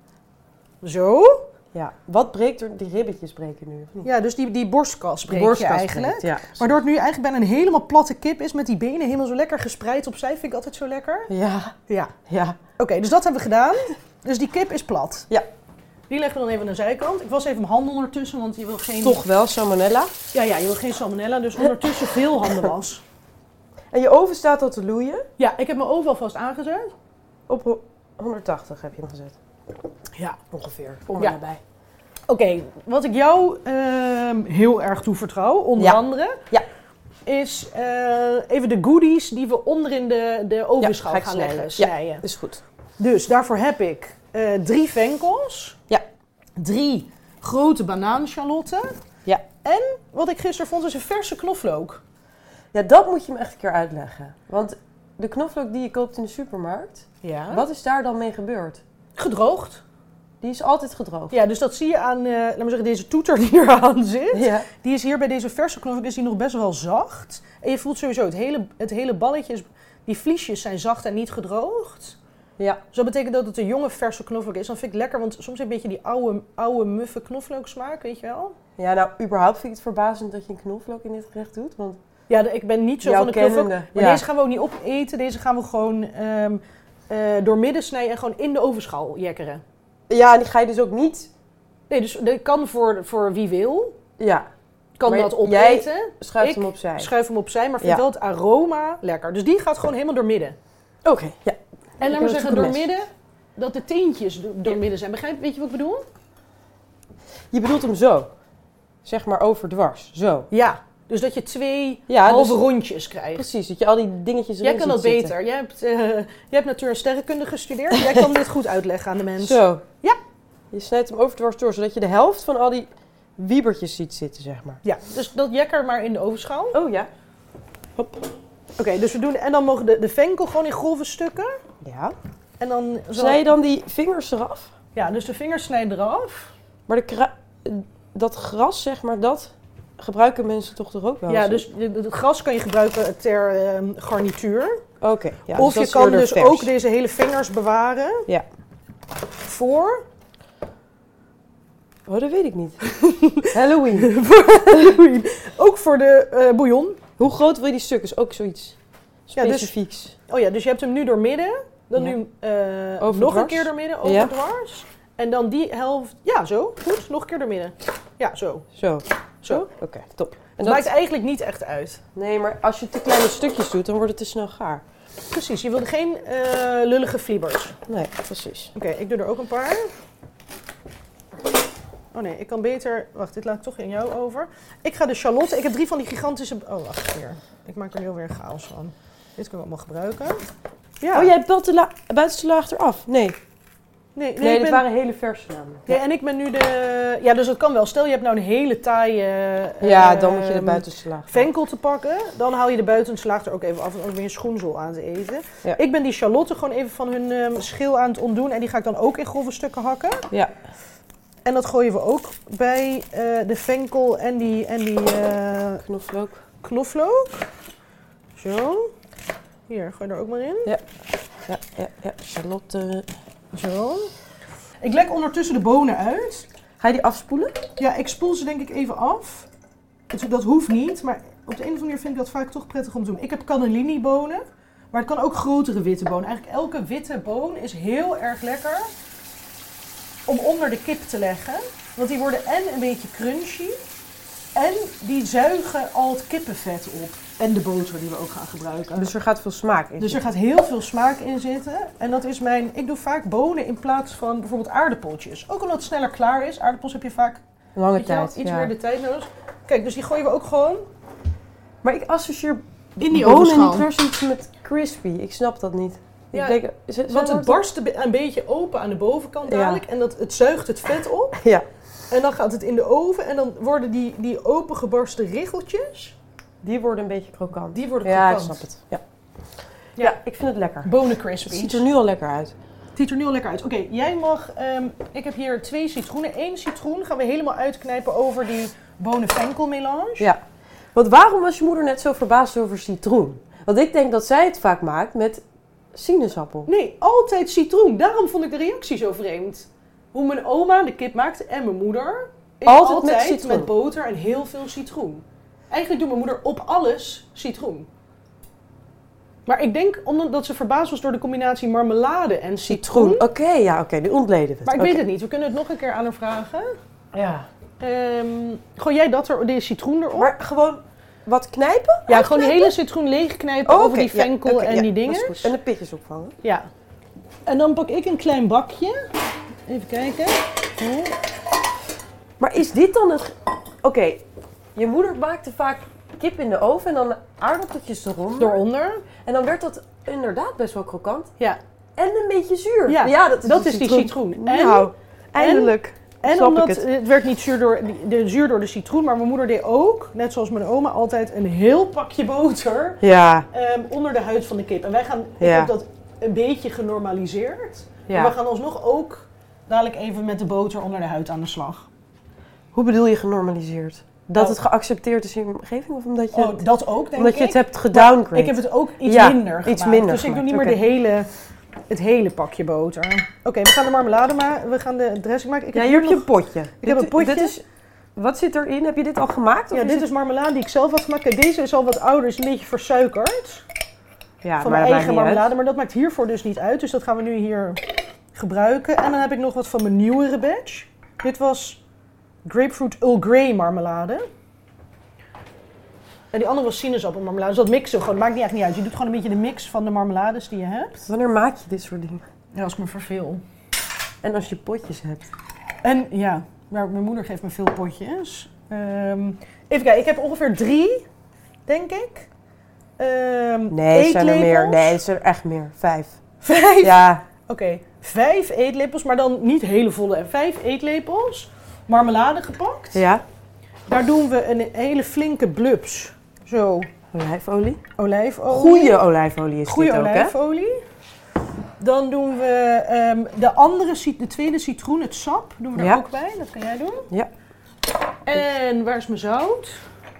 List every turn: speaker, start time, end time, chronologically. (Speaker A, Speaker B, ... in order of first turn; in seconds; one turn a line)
Speaker A: 0.8-1.4
Speaker B: 1.7-4.1
Speaker A: 4.0-11.3
Speaker B: 5.3-6.6
Speaker B: 11.3-11.8
Speaker A: 11.9-12.1
Speaker B: 12.3-12.6
Speaker A: 12.8-15.3
Speaker A: 16.1-19.2
Speaker B: 19.0-20.1
Speaker A: 20.3-23.0
Speaker B: 23.9-25.3
Speaker A: 25.4-26.9
Speaker B: 27.5-29.4
Speaker A: 30.1-30.4
Speaker B: 30.5-31.6
Speaker A: 32.3-36.4
Speaker B: 35.8-36.6
Speaker A: 37.2-42.2
Speaker B: 40.8-42.6
Speaker A: 43.0-45.8
Speaker A: 46.6-48.9
Speaker A: 49.6-52.0
Speaker B: 52.7-58.8
Speaker A: 57.2-57.6
Speaker A: 59.1-59.8
Speaker B: 60.4-61.4
Speaker A: 61.3-72.2
Speaker B: 64.3-64.7
Speaker A: 72.9-78.5
Speaker B: 78.8-82.0
Speaker A: 82.3-89.6
Speaker B: 83.0-84.2
Speaker B: 90.1-91.3
Speaker A: 91.9-94.0
Speaker B: 94.2-94.5
Speaker A: 95.0-100.6
Speaker B: 95.0-97.1
Speaker B: 101.0-102.9
Speaker A: 102.0-106.0
Speaker B: 107.5-108.3
Speaker B: 109.0-110.5
Speaker A: 110.5-113.5
Speaker B: 112.1-112.7
Speaker B: 113.3-115.3
Speaker A: 114.6-120.2
Speaker B: 117.9-118.3
Speaker B: 119.4-119.8
Speaker B: 120.7-124.8
Speaker A: 124.8-126.8
Speaker B: 126.7-127.1
Speaker B: 128.0-128.3
Speaker A: 128.8-131.6
Speaker B: 131.8-132.2
Speaker A: 132.6-133.5
Speaker B: 133.1-134.7
Speaker A: 134.9-136.5
Speaker B: 136.9-141.6
Speaker A: 141.3-144.8
Speaker B: 145.0-146.7
Speaker A: 145.5-148.3
Speaker A: 149.4-150.0
Speaker B: 152.1-152.9
Speaker A: 152.9-157.0
Speaker B: 153.4-154.1
Speaker B: 154.7-155.0
Speaker B: 157.2-158.8
Speaker B: 159.3-160.1
Speaker A: 159.3-159.7
Speaker A: 160.2-168.7
Speaker B: 163.0-164.3
Speaker B: 168.7-170.9
Speaker A: 169.4-169.7
Speaker A: 170.6-172.0
Speaker B: 172.1-174.8
Speaker A: 175.3-177.8
Speaker B: 177.9-178.7
Speaker A: 178.7-179.9
Speaker A: 182.1-190.4
Speaker A: 191.0-191.3
Speaker B: 191.1-193.4
Speaker A: 194.1-194.8
Speaker B: 194.4-196.0
Speaker A: 195.9-210.2
Speaker B: 199.8-201.5
Speaker A: 211.4-215.8
Speaker B: 215.8-216.4
Speaker A: 216.6-217.5
Speaker A: 218.4-218.9
Speaker A: 219.7-220.7
Speaker B: 221.4-223.1
Speaker A: 223.5-224.1
Speaker A: 224.8-226.5
Speaker B: 226.8-227.6
Speaker A: 227.8-229.5
Speaker A: 230.1-238.9
Speaker A: 240.3-243.8
Speaker A: 244.5-249.1
Speaker B: 248.9-250.2
Speaker A: 250.0-257.4
Speaker B: 257.8-258.7
Speaker A: 257.9-260.9
Speaker B: 261.8-267.6
Speaker A: 263.0-263.9
Speaker A: 266.3-271.4
Speaker B: 269.4-269.8
Speaker B: 271.4-271.6
Speaker A: 272.1-276.1
Speaker B: 276.6-279.0
Speaker A: 277.7-278.6
Speaker B: 280.0-282.5
Speaker A: 280.8-281.8
Speaker A: 282.9-290.3
Speaker B: 290.2-296.7
Speaker A: 296.7-307.9
Speaker B: 302.6-303.7
Speaker A: 309.5-313.2
Speaker B: 312.7-315.0
Speaker A: 314.6-316.8
Speaker B: 317.1-317.5
Speaker A: 317.8-320.3
Speaker B: 320.1-322.7
Speaker A: 322.1-325.5
Speaker B: 323.6-326.3
Speaker A: 327.4-329.0
Speaker A: 329.7-331.1
Speaker B: 332.4-334.2
Speaker B: 334.7-338.6
Speaker A: 338.4-339.1
Speaker B: 339.2-341.3
Speaker B: 341.9-346.8
Speaker A: 342.9-361.9
Speaker B: 353.0-353.4
Speaker B: 355.4-355.7
Speaker B: 358.1-358.3
Speaker B: 362.7-370.8
Speaker A: 366.3-371.3
Speaker A: 371.9-377.5
Speaker B: 375.7-377.6
Speaker B: 378.1-380.1
Speaker A: 379.7-383.6
Speaker B: 384.4-385.5
Speaker A: 384.6-387.8
Speaker A: 388.3-391.8
Speaker A: 392.4-394.2
Speaker A: 396.3-401.1
Speaker B: 401.0-402.2
Speaker A: 402.5-403.4
Speaker B: 404.2-405.3
Speaker A: 405.8-411.1
Speaker A: 411.7-412.3
Speaker A: 413.0-415.0
Speaker B: 413.7-416.2
Speaker A: 416.4-423.0
Speaker B: 416.8-417.2
Speaker B: 422.9-423.2
Speaker A: 423.9-426.9
Speaker B: 427.1-427.8
Speaker A: 427.9-429.0
Speaker B: 428.5-430.3
Speaker A: 429.6-430.8
Speaker A: 431.8-437.1
Speaker B: 435.8-436.0
Speaker A: 438.2-439.8